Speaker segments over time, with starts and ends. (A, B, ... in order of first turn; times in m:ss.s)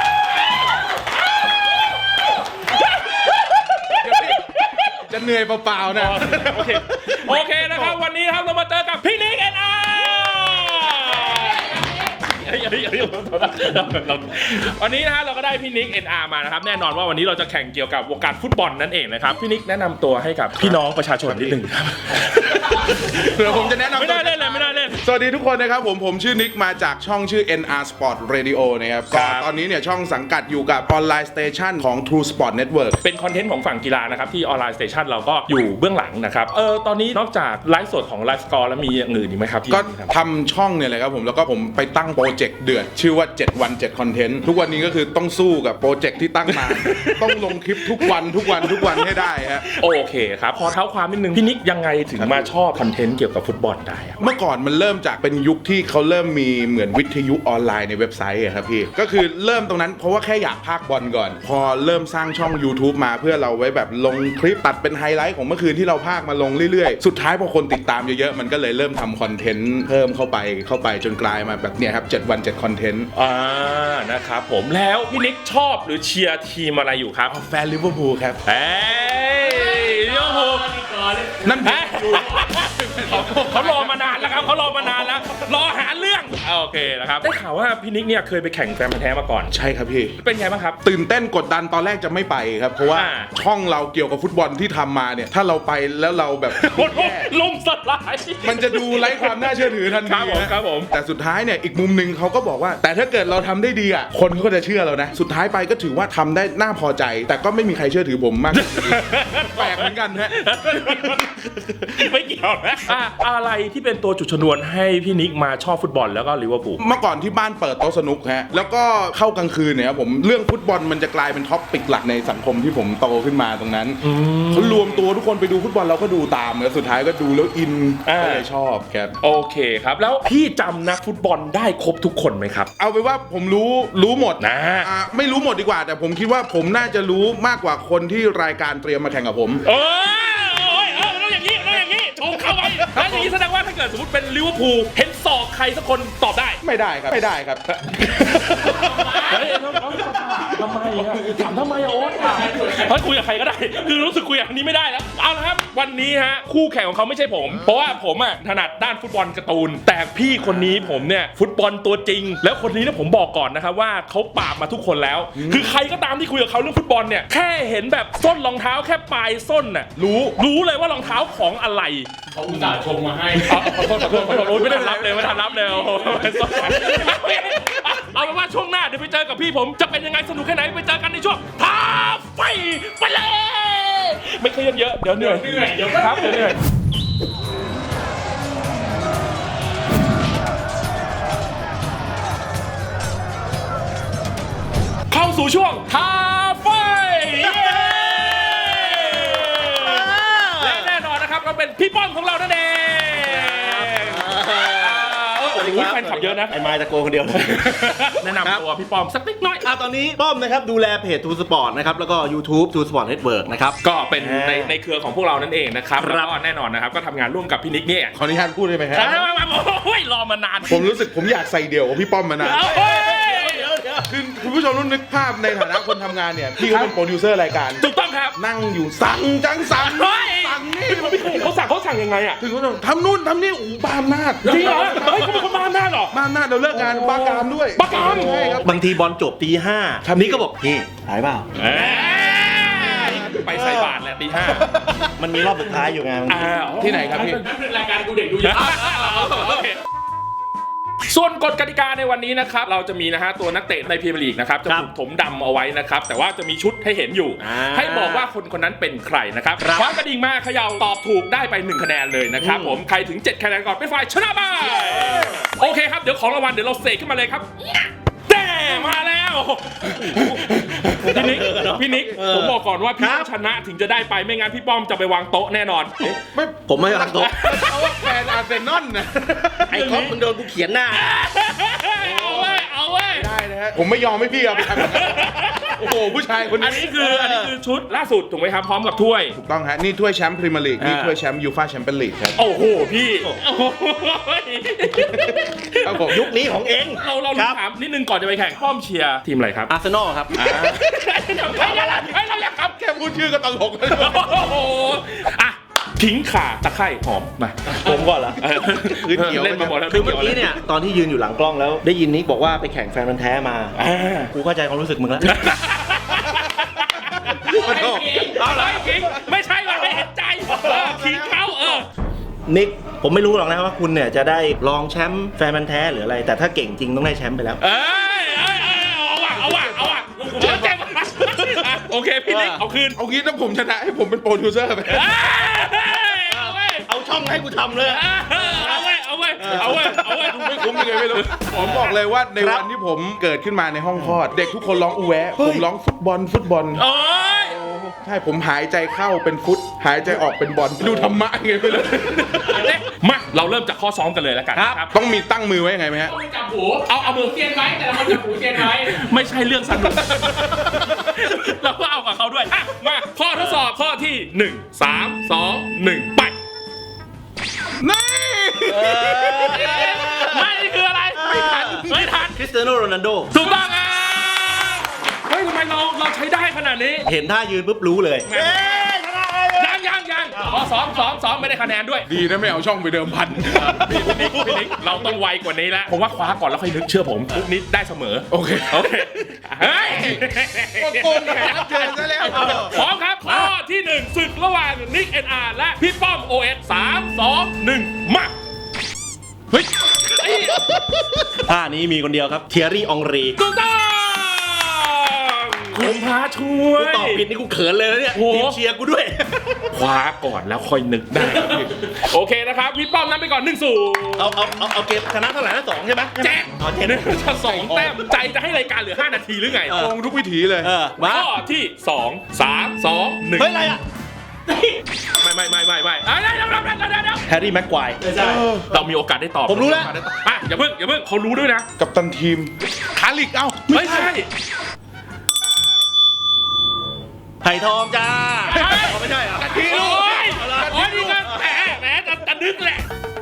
0:01.3-0:01.6 A
0:02.6-0:05.0 A
0:03.9-0:04.4 B
0:05.0-0:08.0 B
0:05.9-0:25.0 A
0:11.7-0:12.0 C
0:20.6-0:21.6 B
0:23.0-0:33.0 B
0:29.1-0:29.5 A
0:33.0-0:40.1 A
0:39.7-0:49.6 B
0:46.5-0:54.2 A
0:52.2-0:52.5 B
0:54.2-1:13.1 B
1:13.1-1:17.3 A
1:17.3-1:18.4 B
1:18.4-1:20.7 A
1:19.4-1:22.2 C
1:21.4-1:25.3 B
1:21.6-1:29.5 A
1:29.5-1:30.2 B
1:30.2-1:30.8 A
1:30.8-1:37.3 B
1:32.9-1:33.3 A
1:36.5-1:40.9 A
1:38.4-1:50.4 B
1:48.5-1:51.2 A
1:50.5-1:53.0 D
1:52.8-1:56.8 A
1:56.8-2:09.1 B
2:04.0-2:05.0 A
2:08.0-2:08.4 A
2:09.2-2:12.7 A
2:12.8-2:19.6 B
2:14.4-2:14.9 A
2:19.6-2:26.6 A
2:22.8-2:23.3 B
2:26.6-2:28.9 B
2:27.9-2:28.5 A
2:28.6-2:29.5 C
2:29.2-2:52.1 A
2:30.9-2:31.5 B
2:32.1-2:32.9 C
2:40.4-2:41.1 B
2:45.3-2:45.8 B
2:50.0-2:50.4 B
2:52.3-2:53.6 C
2:52.5-2:52.7 B
2:53.4-3:06.6 A
2:53.5-2:57.4 B
2:56.6-2:57.1 C
3:05.2-3:06.5 C
3:15.1-3:26.6 A
3:17.6-3:20.9 D
3:23.1-3:28.6 D
3:27.6-3:29.7 A
3:29.6-3:34.8 D
3:33.8-3:38.1 A
3:36.0-3:36.3 D
3:38.1-3:39.3 B
3:38.9-3:40.9 A
3:40.7-3:42.7 B
3:42.4-3:43.7 A
3:42.4-3:44.1 D
3:44.1-3:51.5 B
3:47.8-3:48.4 A
3:49.8-3:52.4 A
3:52.4-3:55.4 B
3:54.4-3:56.1 A
3:54.4-3:55.0 C
3:56.1-3:58.7 B
3:56.8-3:58.6 A
3:58.0-4:06.6 D
4:00.0-4:00.4 B
4:01.5-4:04.7 A
4:06.3-4:07.4 A
4:06.8-4:07.4 B
4:07.0-4:09.4 C
4:08.5-4:09.8 A
4:11.0-4:36.1 A
4:17.4-4:18.3 D
4:19.6-4:19.9 D
4:22.4-4:22.8 D
4:24.6-4:25.4 D
4:29.9-4:33.3 D
4:31.2-4:32.2 B
4:36.0-4:39.9 B
4:36.7-4:37.3 D
4:37.2-4:38.1 A
4:39.7-4:41.1 D
4:39.7-4:40.2 A
4:40.9-4:43.3 A
4:42.0-4:47.0 B
4:44.7-4:45.9 A
4:46.4-4:49.4 A
4:46.9-4:47.5 D
4:49.3-4:52.4 B
4:50.8-4:51.2 D
4:52.4-4:56.3 A
4:55.8-4:56.2 B
4:56.1-4:57.6 D
4:57.0-4:59.7 A
4:59.7-5:02.2 D
5:00.3-5:00.8 B
5:00.6-5:02.8 A
5:02.6-5:04.5 B
5:03.9-5:07.8 A
5:07.7-5:08.7 D
5:08.4-5:10.6 A
5:08.8-5:09.8 B
5:09.8-5:13.8 D
5:13.7-5:14.3 A
5:14.3-5:15.5 D
5:15.2-5:17.6 A
5:17.4-5:18.4 C
5:17.5-5:19.1 D
5:18.3-5:21.9 A
5:20.5-5:21.8 B
5:20.5-5:20.8 D
5:22.5-5:27.6 D
5:27.6-5:33.0 A
5:29.4-5:30.8 B
5:32.3-5:32.6 D
5:33.0-5:35.2 B
5:34.8-5:36.9 A
5:36.3-5:42.6 D
5:37.8-5:41.8 A
5:39.5-5:46.8 B
5:45.4-5:45.6 D
5:46.7-5:47.6 A
5:47.4-5:47.9 D
5:48.0-5:52.7 B
5:50.8-5:51.1 A
5:51.7-5:54.9 A
5:54.5-5:54.8 D
5:54.9-5:56.1 B
5:56.0-5:59.0 C
5:56.8-5:57.4 A
5:58.7-6:06.3 A
6:00.6-6:01.0 B
6:07.8-6:09.7 B
6:08.6-6:13.3 D
6:09.3-6:12.4 A
6:13.3-6:17.1 A
6:17.0-6:19.8 D
6:18.2-6:18.9 A
6:19.5-6:22.1 A
6:20.3-6:20.6 D
6:22.1-6:24.4 B
6:23.5-6:38.3 A
6:23.9-6:24.7 D
6:28.3-6:32.8 B
6:32.3-6:32.6 C
6:32.3-6:32.6 D
6:40.1-6:40.6 A
6:41.3-6:43.4 D
6:43.4-6:47.2 A
6:45.8-6:46.0 D
6:46.7-6:49.7 D
6:48.1-6:48.6 A
6:49.7-6:54.3 A
6:51.1-6:51.7 B
6:54.2-6:57.9 D
6:56.2-6:59.8 A
6:57.4-6:57.8 B
6:59.7-6:59.9 D
6:59.7-7:00.7 B
7:00.6-7:01.3 D
7:01.0-7:03.6 A
7:03.4-7:03.8 D
7:05.2-7:07.2 A
7:07.3-7:08.2 D
7:08.0-7:08.4 C
7:08.2-7:08.7 B
7:08.7-7:11.7 A
7:09.5-7:09.9 D
7:11.8-7:14.1 B
7:13.7-7:14.3 A
7:17.4-7:21.4 D
7:18.5-7:19.0 A
7:18.6-7:21.2 B
7:19.5-7:22.8 A